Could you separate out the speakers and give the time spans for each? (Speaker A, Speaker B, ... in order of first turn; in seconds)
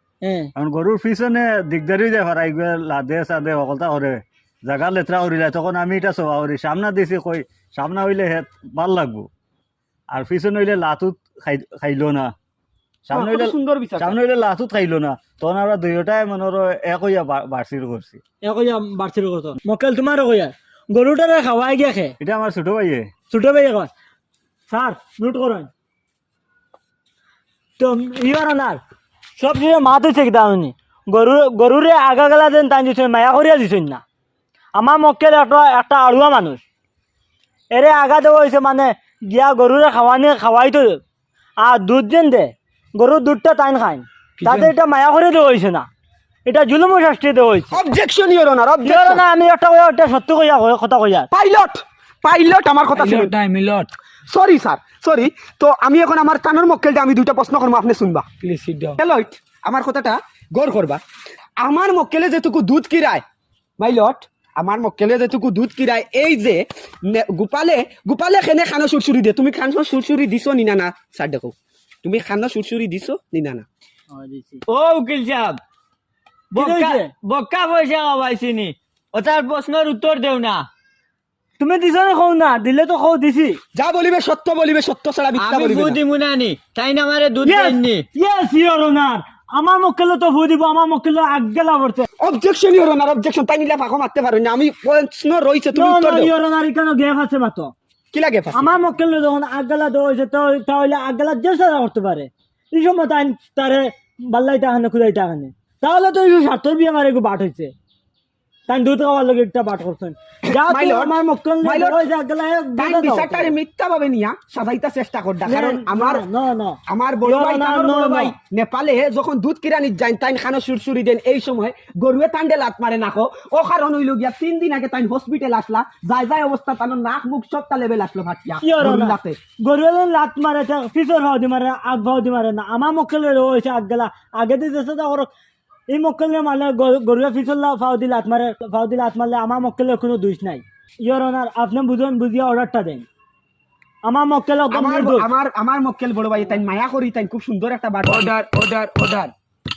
Speaker A: 0.2-0.5, 18.4-22.1, 23.3-23.9, 24.7-25.7, 27.8-28.8, 29.4-34.0, 34.7-36.6, 37.7-41.0, 41.6-45.9, 46.5-47.8, 48.8-51.3, 74.1-74.6, 76.5-77.1, 81.6-83.6, 87.4-92.1, 95.7-97.7, 98.5-107.7, 108.7-113.5, 115.5-118.3, 128.6-135.3, 135.9-143.1, 144.0-145.3
Speaker B: 0.6-9.3, 10.1-12.3, 13.1-18.2, 22.2-23.1
Speaker C: 13.1-14.1, 47.7-49.2, 51.3-53.3, 54.3-58.2, 59.0-61.0, 61.6-63.2, 63.8-73.6, 83.7-86.0, 92.2-96.2, 98.1-98.7, 110.7-112.0, 112.8-116.2, 116.9-129.4, 144.7-148.3
Speaker D: 44.4-44.7, 52.9-53.9, 58.4-59.0, 148.1-149.3
Speaker E: 74.7-75.6, 76.5-80.7, 85.3-88.0